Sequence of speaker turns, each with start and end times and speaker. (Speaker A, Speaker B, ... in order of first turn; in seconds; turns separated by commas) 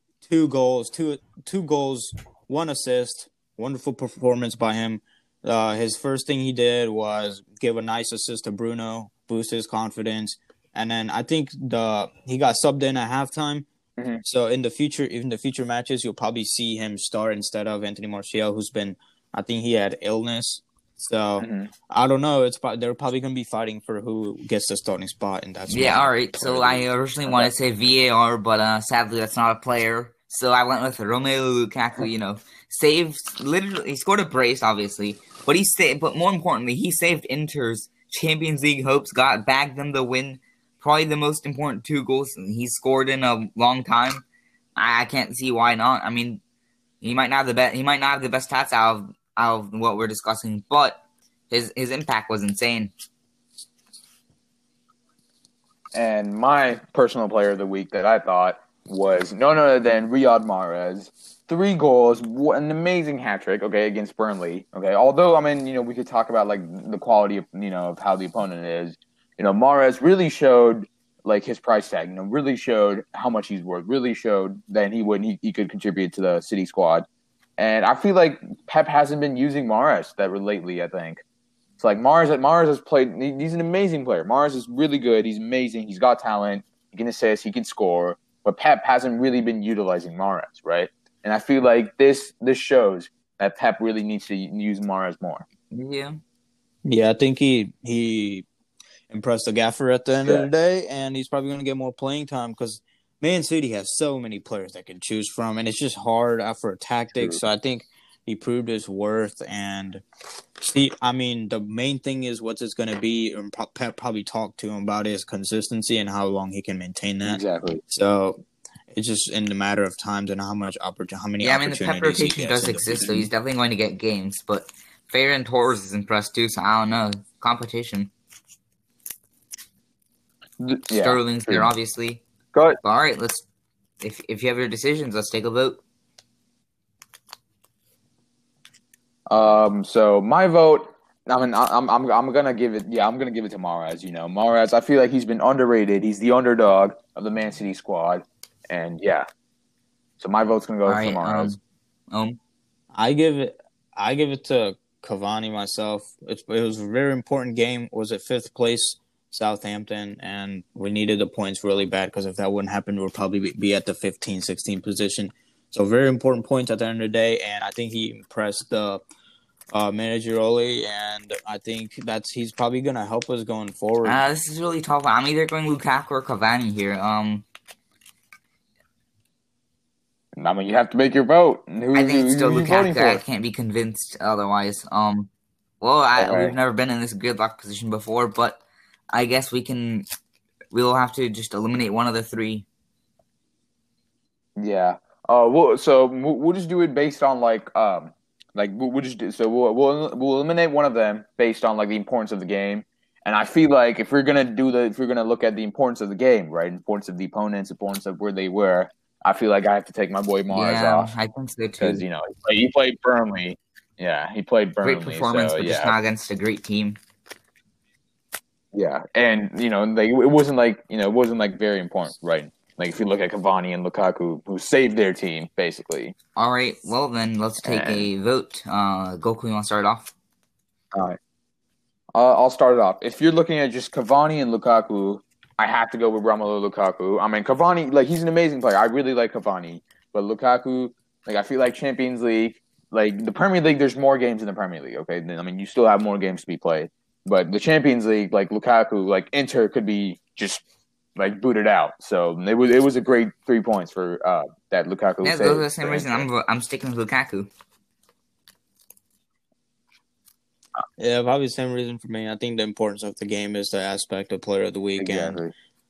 Speaker A: 0.2-13.7, Speaker B: 14.0-14.2, Speaker A: 14.2-26.9, Speaker B: 21.4-21.7, Speaker C: 25.7-44.2, Speaker C: 44.8-46.4, Speaker C: 47.0-52.9, Speaker B: 56.0-77.1, Speaker B: 77.6-81.2, Speaker B: 81.8-95.5, Speaker C: 95.7-96.2, Speaker A: 96.8-98.5, Speaker A: 99.1-110.0, Speaker A: 110.6-123.3, Speaker B: 117.2-117.8, Speaker C: 121.4-128.1, Speaker B: 130.6-131.7, Speaker C: 130.9-132.2, Speaker B: 132.5-132.8, Speaker C: 132.8-133.4, Speaker C: 134.0-135.8, Speaker B: 139.3-149.3, Speaker B: 150.2-151.6, Speaker C: 150.9-151.6, Speaker C: 152.1-152.4, Speaker A: 152.9-169.0, Speaker A: 169.7-174.2, Speaker C: 174.0-177.4, Speaker B: 180.4-183.2, Speaker C: 181.9-185.3, Speaker C: 185.8-188.6, Speaker B: 186.2-186.6, Speaker C: 189.1-190.1, Speaker C: 190.7-192.7, Speaker B: 194.6-211.1, Speaker C: 210.5-212.0, Speaker B: 211.8-215.9, Speaker C: 214.8-217.0, Speaker B: 218.7-226.2, Speaker C: 226.4-230.1, Speaker B: 227.6-228.1, Speaker B: 232.1-250.6, Speaker B: 251.2-256.3, Speaker C: 255.2-257.5, Speaker A: 261.0-265.4, Speaker B: 265.0-265.5